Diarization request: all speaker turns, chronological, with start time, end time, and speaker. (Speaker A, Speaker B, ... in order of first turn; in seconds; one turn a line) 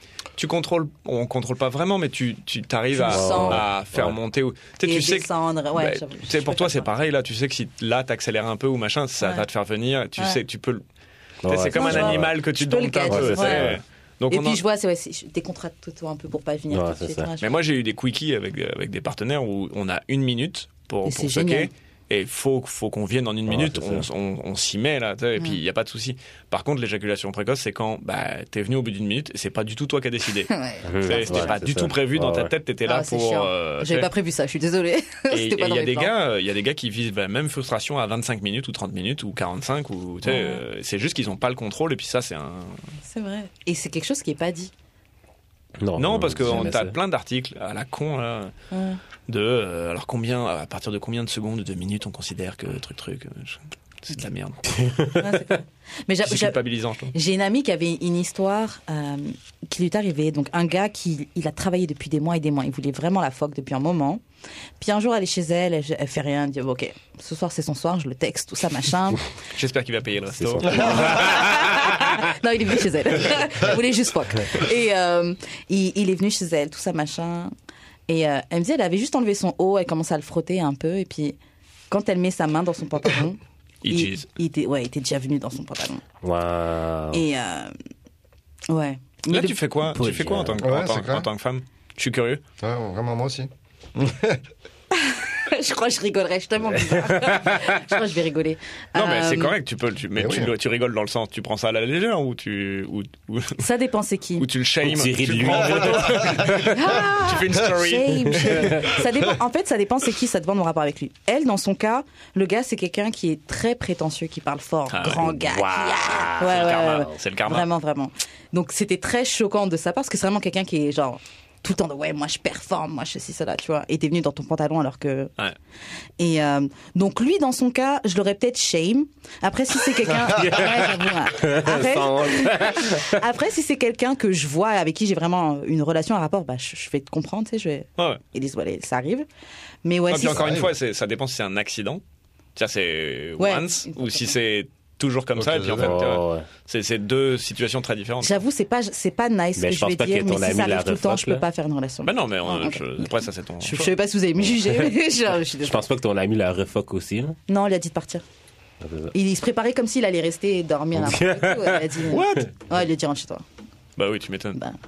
Speaker A: 0.4-10.8
Speaker B: 2.9-3.6
Speaker C: 3.1-4.2
Speaker B: 4.8-6.9
Speaker C: 11.4-12.3
Speaker A: 11.5-14.6
Speaker B: 11.7-13.8
Speaker C: 13.1-13.8
Speaker B: 14.3-17.6
Speaker C: 16.7-17.3
Speaker A: 17.4-30.5
Speaker B: 21.1-21.7
Speaker C: 23.5-24.1
Speaker B: 30.5-31.6
Speaker C: 30.9-32.5
Speaker A: 31.1-34.1
Speaker B: 32.9-36.1
Speaker A: 35.3-42.8
Speaker B: 40.2-40.6
Speaker B: 43.1-44.7
Speaker C: 45.8-47.0
Speaker A: 46.0-48.5
Speaker B: 48.7-49.0
Speaker A: 49.3-54.8
Speaker C: 54.8-55.5
Speaker B: 55.2-56.6
Speaker A: 56.2-57.1
Speaker B: 57.1-64.2
Speaker B: 64.8-69.2
Speaker A: 69.5-71.9
Speaker C: 70.4-71.9
Speaker B: 70.7-77.5
Speaker B: 78.1-81.4
Speaker B: 81.9-86.0
Speaker A: 83.8-84.2
Speaker C: 86.2-87.2
Speaker B: 87.1-87.7
Speaker B: 88.7-89.6
Speaker A: 89.3-92.4
Speaker C: 89.9-90.6
Speaker D: 90.6-91.3
Speaker D: 92.6-94.4
Speaker B: 94.9-99.5
Speaker C: 97.1-97.7
Speaker A: 99.0-103.7
Speaker D: 100.2-100.5
Speaker B: 103.6-104.5
Speaker A: 104.4-109.0
Speaker C: 104.8-106.8
Speaker D: 105.6-106.5
Speaker B: 106.7-125.3
Speaker A: 114.9-115.3
Speaker C: 115.2-117.1
Speaker A: 116.4-117.7
Speaker B: 126.2-139.3
Speaker C: 130.3-133.2
Speaker B: 139.8-140.5
Speaker A: 140.1-142.0
Speaker D: 140.2-140.7
Speaker A: 142.6-148.4
Speaker B: 143.4-144.3
Speaker D: 145.4-146.0
Speaker C: 145.8-146.5
Speaker B: 148.2-153.1
Speaker C: 149.6-151.4
Speaker A: 152.0-153.9
Speaker B: 153.6-155.8
Speaker C: 155.6-157.4
Speaker B: 157.5-158.2
Speaker C: 158.8-159.1
Speaker B: 159.1-163.4
Speaker C: 160.9-162.5
Speaker A: 162.1-162.5
Speaker A: 164.0-164.6